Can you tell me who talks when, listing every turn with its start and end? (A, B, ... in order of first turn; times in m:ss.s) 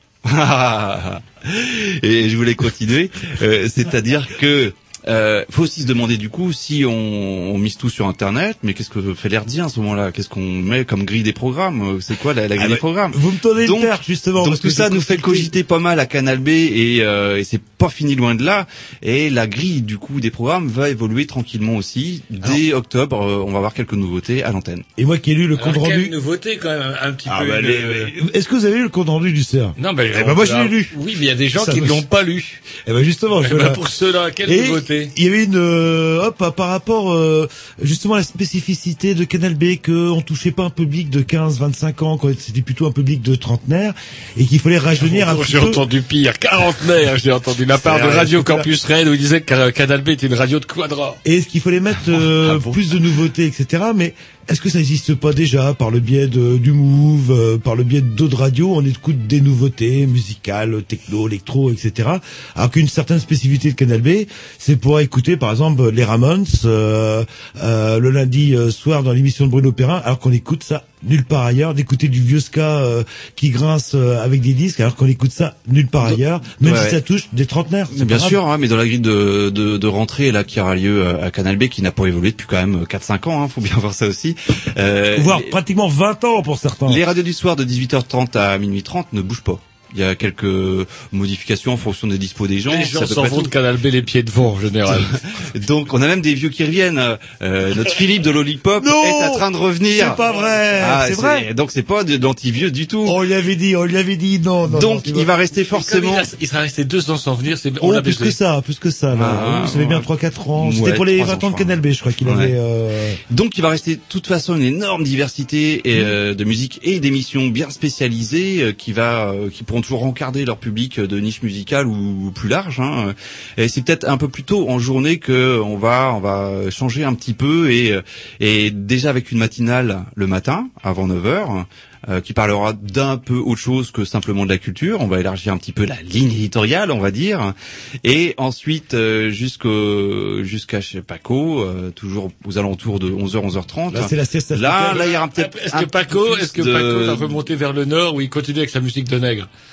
0:00.2-0:24.9 A
0:12.6-0:15.5 B
0:25.0-0:26.2 B
0:25.6-0:28.1 C
0:27.3-0:28.1 A
0:27.5-0:31.0 B
0:29.8-0:32.6 C
0:31.6-0:32.1 B
0:32.8-0:33.8 B
0:33.4-0:35.1 C
0:34.4-0:45.8 B
0:45.0-0:51.2 C
0:47.8-0:48.7 B
0:47.9-0:48.2 A
0:51.2-1:18.4 B
0:52.2-0:52.8 C
1:16.0-1:17.0 A
1:17.9-1:25.6 A
1:25.1-1:27.0 B
1:26.9-1:33.5 A
1:32.7-1:35.2 C
1:34.9-1:40.2 A
1:38.8-1:41.5 B
1:40.2-1:40.7 C
1:40.8-1:43.2 A
1:43.1-1:45.3 B
1:44.7-1:46.3 A
1:45.7-1:48.4 C
1:47.8-1:53.2 B
1:49.1-1:52.6 A
1:53.3-2:27.4 A
2:23.9-2:25.1 B
2:24.9-2:29.5 C